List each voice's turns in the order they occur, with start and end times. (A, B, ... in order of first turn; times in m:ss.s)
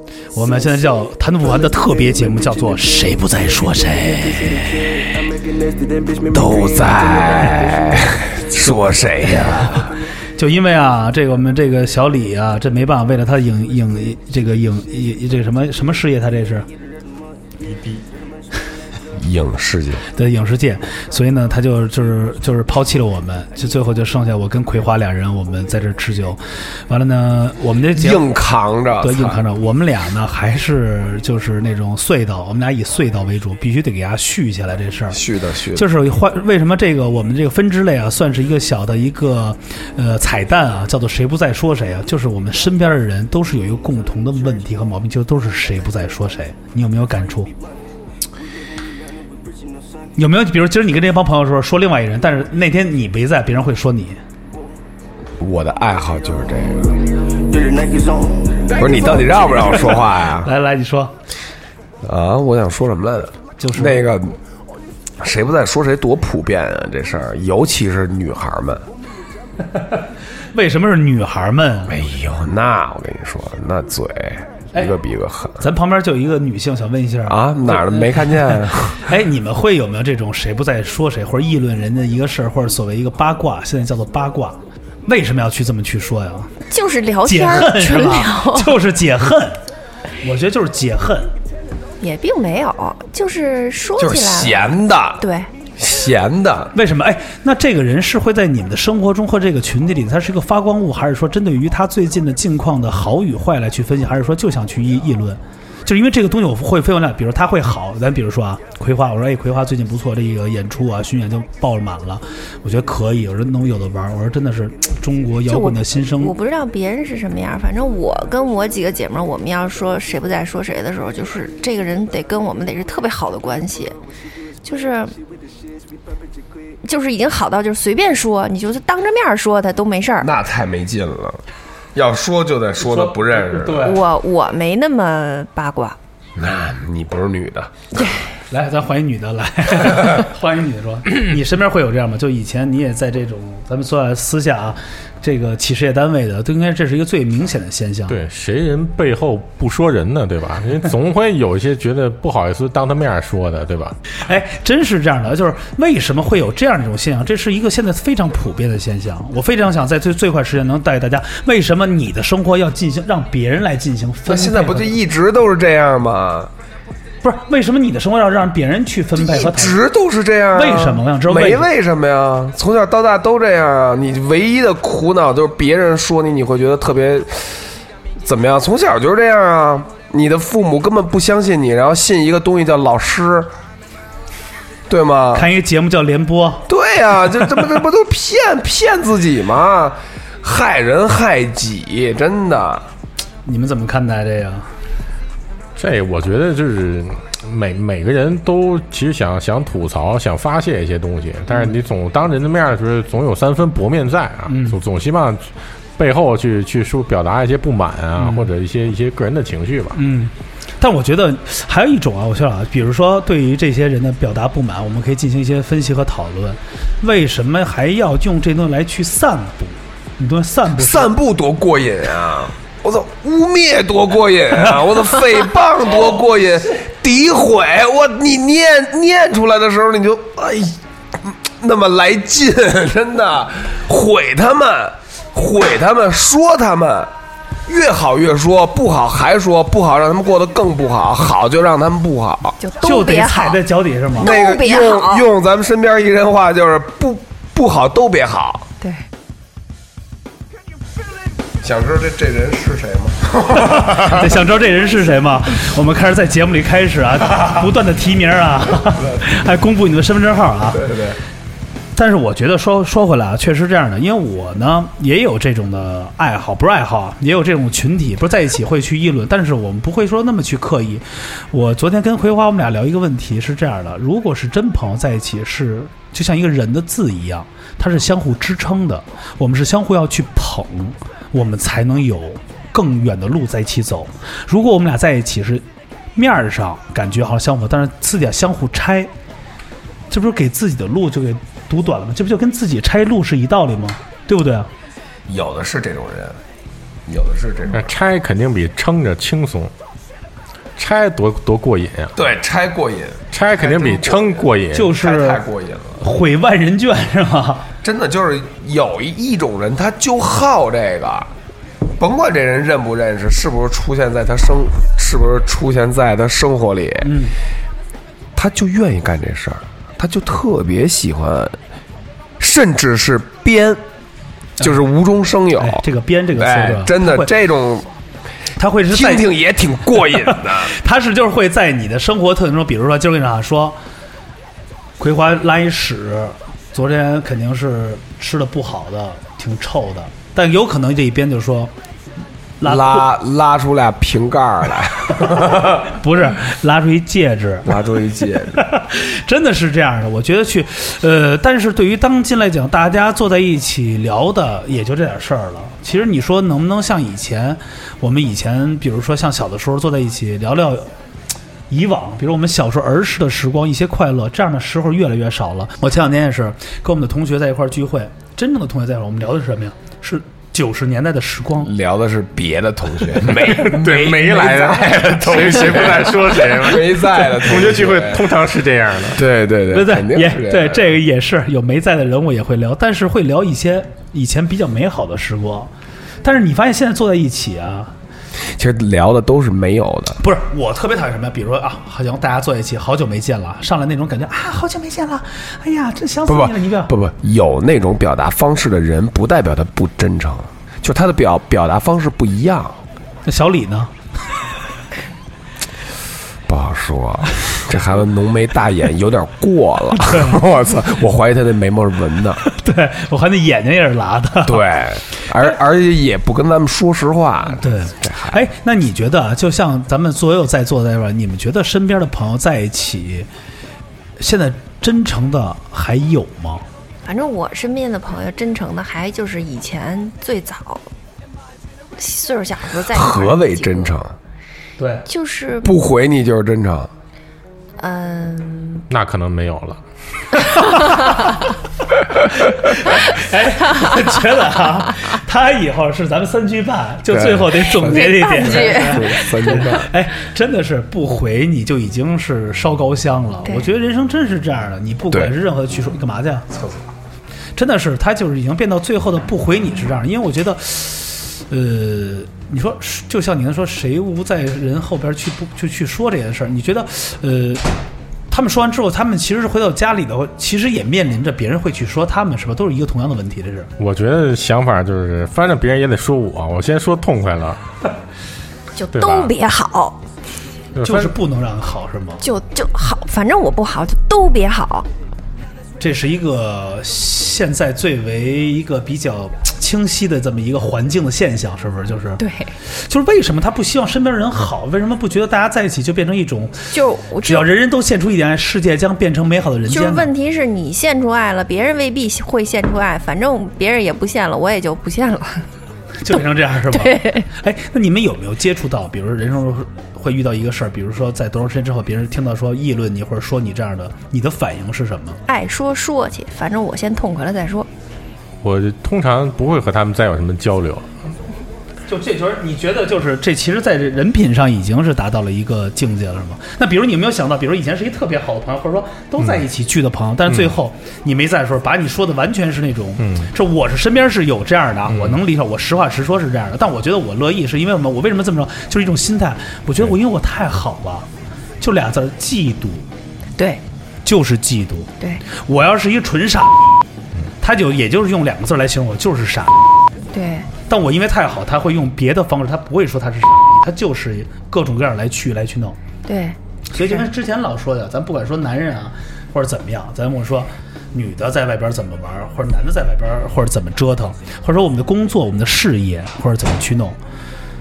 0:00.3-0:04.9 A
0:06.3-0:09.9 B
0:10.4-0:16.7 A
0:19.1-0:20.0 B
0:20.1-0:28.2 A
0:27.9-0:29.4 B
0:29.0-0:35.2 A
0:35.1-0:35.9 B
0:35.7-0:47.5 A
0:50.2-0:54.2 A
0:55.4-0:57.0 B
0:58.7-1:00.5 B
1:00.4-1:01.1 A
1:02.0-1:04.4 B
1:03.6-1:04.0 A
1:05.2-1:08.8 B
1:10.5-1:11.9 A
1:11.9-1:15.6 B
1:15.6-1:26.5 A
1:17.3-1:19.0 B
1:26.7-1:28.8 C
1:27.2-1:29.6 A
1:30.2-1:31.3 A
1:32.0-1:34.7 C
1:34.0-1:35.2 B
1:35.2-1:35.5 C
1:35.8-1:36.7 B
1:36.7-1:56.3 A
1:55.5-2:04.0 C
2:04.6-2:05.1 C
2:06.8-2:10.3 C
2:10.2-2:11.4 B
2:11.9-2:14.0 B
2:12.8-2:14.0 A
2:13.8-2:16.0 C
2:16.4-2:17.9 B
2:18.5-2:28.2 A
2:28.1-2:33.9 D
2:34.2-2:45.0 A
2:44.2-2:46.5 B
2:47.2-2:49.8 A
2:49.2-2:57.6 B
2:50.5-2:51.7 A
2:58.2-3:03.5 B
3:04.9-3:05.5 B
3:05.3-3:06.6 A
3:06.7-3:12.8 B
3:13.4-3:14.7 A
3:15.8-3:25.4 D
3:24.5-3:24.8 A
3:26.0-3:30.0 D
3:28.2-3:28.5 A
3:29.9-3:41.1 A
3:40.8-3:57.1 B
3:57.6-4:02.6 B
4:02.6-4:03.6 C
4:02.8-4:04.3 A
4:04.2-4:05.2 C
4:04.2-4:08.7 B
4:08.8-4:09.0 C
4:11.6-4:14.3 B
4:13.5-4:20.8 A
4:20.7-4:21.2 B
4:21.9-4:45.6 A
4:46.1-4:49.1 A
4:50.1-4:54.7 A
4:55.3-4:56.4 B
4:57.0-4:57.9 B
4:57.7-4:59.7 D
5:00.8-5:02.1 D
5:02.2-5:06.0 B
5:03.3-5:04.9 D
5:04.7-5:05.4 A
5:06.0-5:07.7 A
5:07.8-5:11.3 B
5:12.0-5:17.1 B
5:17.0-5:17.3 A
5:18.4-5:21.6 B
5:22.4-5:23.8 B
5:24.6-5:27.9 B
5:25.6-5:27.3 A
5:28.5-5:29.4 A
5:28.9-5:30.7 B
5:29.9-5:33.8 A
5:35.0-5:41.7 A
5:42.6-5:43.1 A
5:42.6-5:45.8 B
5:45.8-5:47.7 A
5:47.6-5:48.6 B
5:48.5-6:00.9 A
6:01.7-6:11.7 A
6:11.6-6:18.3 B
6:13.4-6:19.2 D
6:19.2-6:20.8 B
6:19.7-6:25.7 A
6:26.2-6:27.9 A
6:28.5-6:30.2 B
6:30.2-6:36.9 A
6:36.2-6:42.8 B
6:43.2-6:43.9 A
6:46.5-6:52.4 B
6:50.0-6:50.4 A
6:52.4-6:54.6 A
6:54.4-6:58.4 B
6:57.6-7:03.3 A
7:04.2-7:06.6 A
7:07.0-7:10.8 C
7:12.0-7:14.0 C
7:12.9-7:14.2 B
7:14.8-7:15.1 A
7:15.0-7:15.7 C
7:15.6-7:16.9 B
7:17.8-7:18.8 C
7:18.9-7:19.8 D
7:22.4-7:36.6 A
7:27.1-7:29.9 B
7:27.8-7:29.5 C
7:33.4-7:33.7 C
7:37.6-7:47.6 A
7:48.3-7:53.7 A
7:53.8-7:57.6 D
7:58.8-8:00.0 C
7:58.9-7:59.3 D
8:00.8-8:01.1 D
8:00.8-8:02.2 A
8:02.2-8:04.9 C
8:05.8-8:20.1 A
8:12.2-8:12.5 C
8:16.7-8:17.5 C
8:19.7-8:25.5 C
8:26.0-8:35.2 A
8:26.7-8:27.2 C
8:35.3-8:37.7 C
8:38.4-8:40.9 D
8:41.8-9:01.1 A
8:53.0-8:53.3 D
8:54.9-8:55.2 D
9:01.6-9:02.9 A
9:04.0-9:06.8 A
9:07.4-9:09.8 A
9:10.1-9:10.5 C
9:10.6-9:15.8 A
9:16.0-9:16.4 C
9:16.7-9:27.0 A